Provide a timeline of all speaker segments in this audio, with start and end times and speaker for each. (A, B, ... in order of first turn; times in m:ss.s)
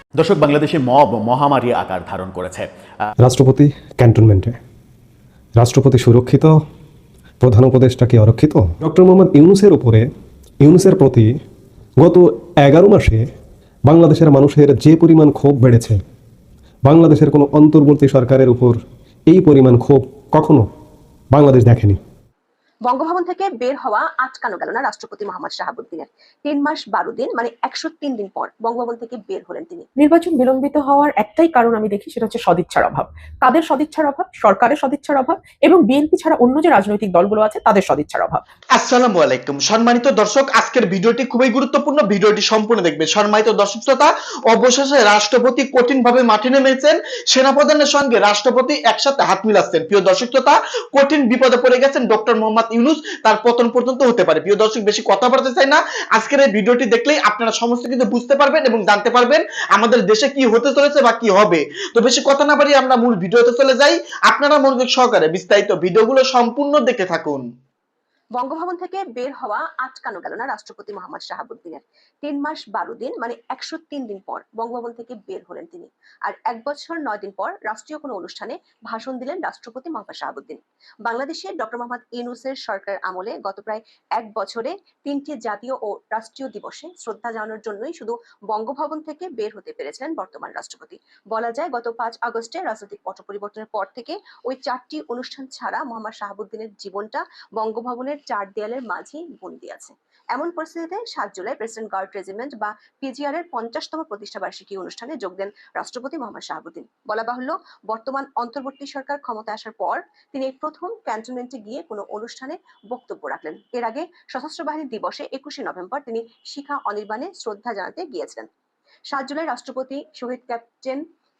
0:00.2-0:03.1 A
0:03.2-0:04.6 B
0:05.6-0:06.6 B
0:07.4-0:10.1 B
0:10.6-0:11.3 B
0:12.0-0:13.3 B
0:13.9-0:16.0 B
0:16.8-0:20.7 B
0:21.3-0:22.0 B
0:22.8-0:29.9 C
0:30.0-0:38.4 D
0:38.7-1:07.4 E
1:08.4-1:58.5 C
1:59.1-2:01.0 C